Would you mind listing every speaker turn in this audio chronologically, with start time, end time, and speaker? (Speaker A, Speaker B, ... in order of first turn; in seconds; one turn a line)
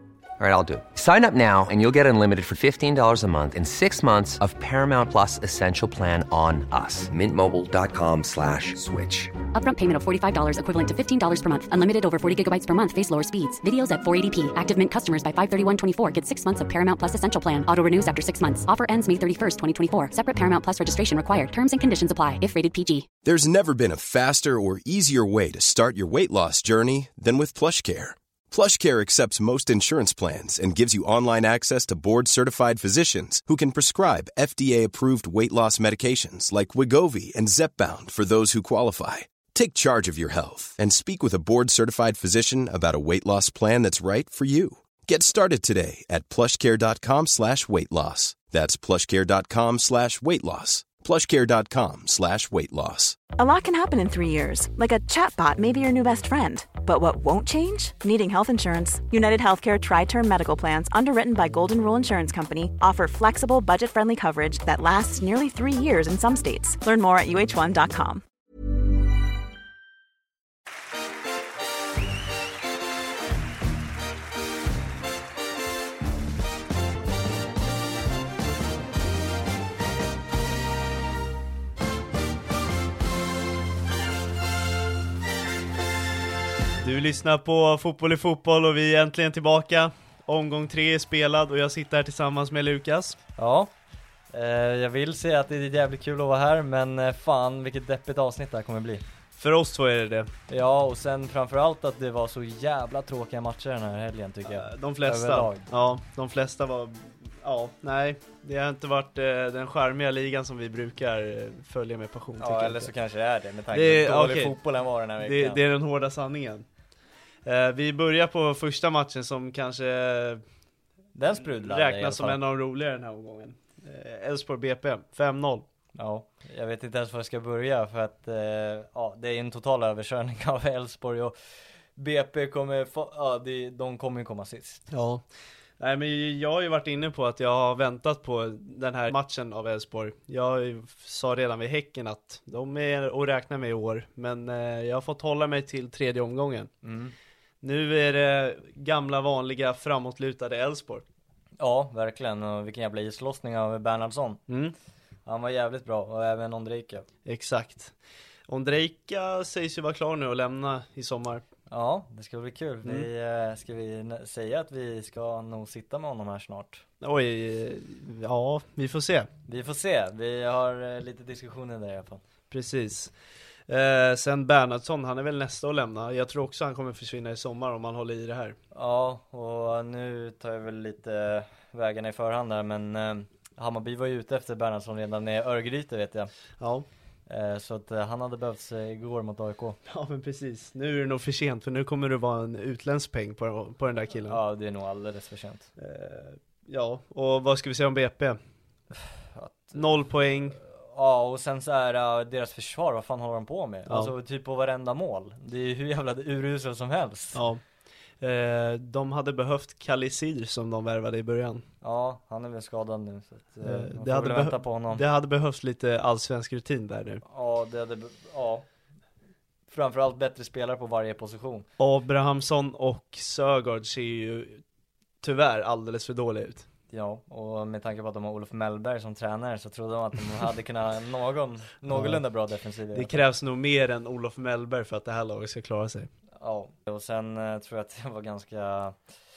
Speaker A: 0.4-9.3
Speaker B: 9.5-23.1
Speaker C: 23.2-53.2
Speaker D: 53.4-68.2
Speaker E: 86.8-93.2
Speaker F: 93.3-93.7
Speaker F: 94.3-99.0
Speaker E: 99.4-100.3
Speaker F: 100.5-105.7
Speaker E: 104.5-112.9
Speaker F: 112.4-115.6
Speaker E: 113.7-114.6
Speaker E: 115.2-116.7
Speaker E: 117.4-120.4
Speaker F: 121.1-122.4
Speaker E: 121.5-125.6
Speaker F: 125.9-131.3
Speaker F: 131.9-134.9
Speaker E: 134.9-135.2
Speaker E: 135.8-146.7
Speaker F: 146.8-147.1
Speaker E: 147.6-151.1
Speaker F: 151.6-154.4
Speaker E: 154.5-154.7
Speaker F: 155.2-157.1
Speaker E: 157.2-157.9
Speaker E: 158.5-161.4
Speaker F: 161.7-166.8
Speaker E: 167.0-169.3
Speaker F: 169.4-172.2
Speaker E: 172.5-173.1
Speaker E: 173.7-178.6
Speaker F: 178.7-186.3
Speaker E: 186.6-186.8
Speaker F: 187.3-189.8
Speaker E: 189.9-194.4
Speaker F: 194.2-195.7
Speaker E: 195.8-198.4
Speaker F: 198.9-207.4
Speaker E: 199.7-200.6
Speaker E: 207.3-207.6
Speaker E: 208.2-211.7
Speaker F: 211.8-215.0
Speaker E: 213.6-217.2
Speaker F: 217.2-218.7
Speaker F: 219.7-221.7
Speaker E: 221.8-224.6
Speaker E: 225.2-226.7
Speaker F: 226.9-233.2
Speaker E: 231.9-232.2
Speaker E: 232.9-236.1
Speaker F: 236.3-239.0